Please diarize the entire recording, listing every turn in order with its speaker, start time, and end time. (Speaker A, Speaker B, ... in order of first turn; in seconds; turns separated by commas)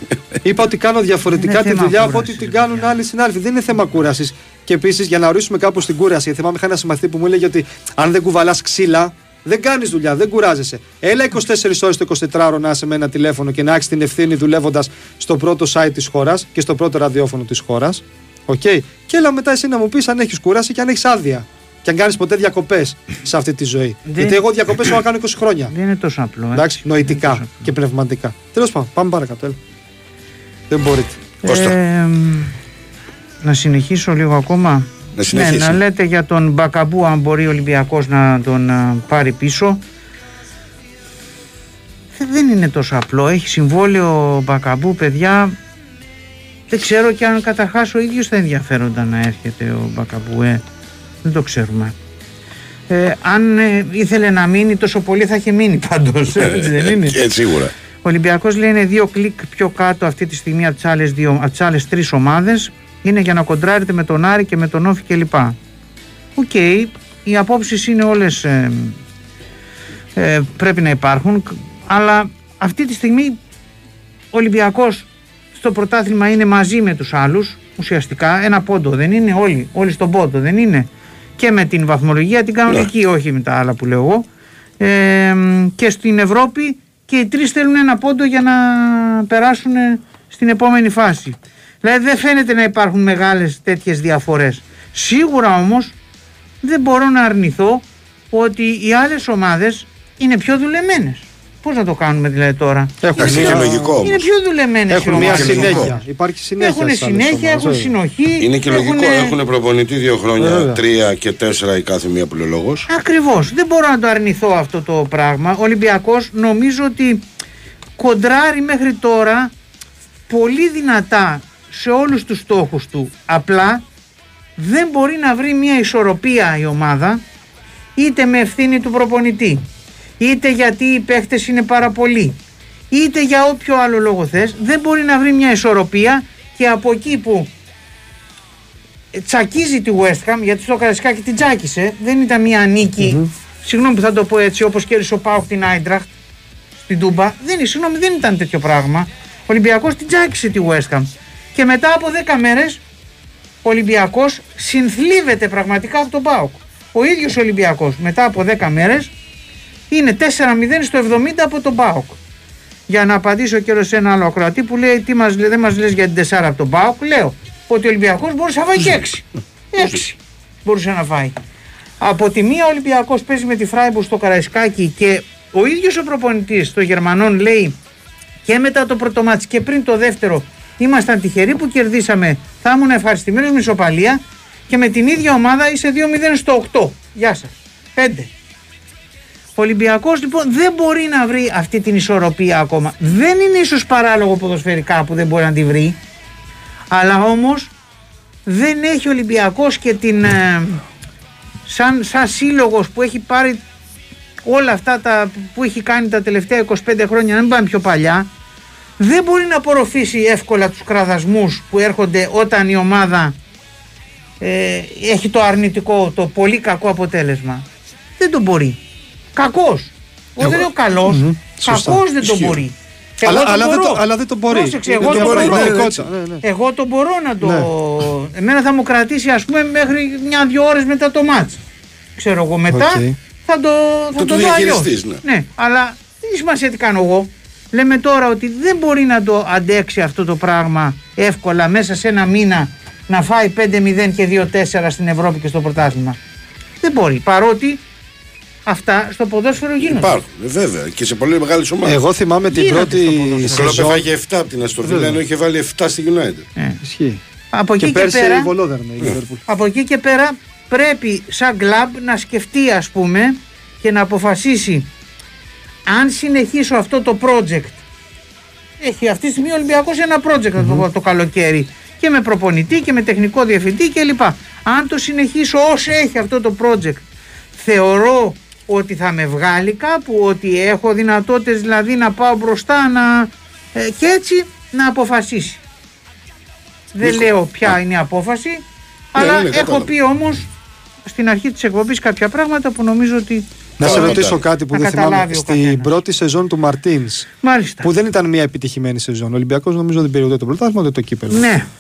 Speaker A: 0.4-25.7, Speaker B: 1.3-2.9, Speaker B: 24.1-24.4, Speaker B: 25.7-27.7, Speaker A: 26.5-29.6, Speaker A: 30.7-31.2, Speaker B: 31.4-32.5, Speaker C: 31.4-31.8, Speaker B: 33.4-39.8, Speaker C: 35.1-35.8, Speaker B: 42.1-45.6, Speaker B: 46.7-50.6, Speaker B: 51.2-52.0, Speaker B: 52.9-57.2, Speaker C: 56.4-57.7, Speaker B: 58.0-65.6, Speaker B: 66.4-69.0, Speaker B: 70.2-73.4, Speaker B: 74.3-84.3, Speaker B: 84.8-96.0, Speaker B: 96.6-106.0, Speaker A: 103.0-104.0, Speaker C: 103.2-104.3, Speaker A: 104.9-107.9, Speaker C: 105.0-106.0, Speaker B: 106.6-109.4, Speaker C: 108.4-112.9, Speaker A: 110.4-110.8, Speaker B: 112.9-117.2, Speaker B: 118.0-119.5, Speaker B: 120.3-123.8, Speaker B: 124.6-127.2, Speaker B: 128.0-129.6, Speaker B: 130.2-132.4, Speaker B: 132.9-137.5, Speaker B: 139.1-146.1, Speaker A: 143.0-143.3, Speaker B: 146.8-152.8, Speaker B: 153.6-159.1, Speaker B: 159.9-162.2, Speaker B: 162.9-171.4, Speaker B: 172.0-177.8, Speaker B: 178.4-188.3, Speaker B: 189.6-196.0, Speaker B: 196.9-197.7, Speaker B: 198.5-200.8, Speaker B: 201.7-203.6, Speaker B: 204.4-208.3, Speaker B: 209.0-213.4, Speaker B: 214.4-217.7, Speaker B: 218.2-218.8, Speaker B: 219.3-225.8, Speaker A: 220.4-222.0, Speaker C: 222.2-222.6, Speaker A: 223.2-226.4, Speaker C: 225.0-226.1, Speaker B: 226.4-231.6, Speaker A: 227.4-227.7, Speaker B: 232.2-246.2, Speaker A: 232.7-233.2, Speaker C: 234.2-235.2, Speaker B: 246.8-247.8, Speaker B: 248.7-250.1, Speaker C: 249.8-252.0, Speaker A: 251.8-254.0, Speaker B: 252.5-253.9, Speaker C: 253.5-256.5, Speaker A: 254.8-255.2, Speaker A: 256.8-257.2, Speaker B: 257.5-258.5, Speaker A: 257.8-259.4, Speaker B: 259.5-264.9, Speaker B: 265.9-267.8, Speaker B: 268.8-277.1, Speaker A: 270.6-270.8, Speaker B: 277.6-285.6, Speaker B: 286.9-290.5, Speaker C: 287.0-287.8, Speaker C: 289.2-289.9, Speaker B: 291.1-295.9, Speaker C: 293.8-294.4, Speaker A: 293.8-297.3, Speaker B: 297.4-297.9, Speaker A: 297.8-301.5, Speaker B: 301.3-301.7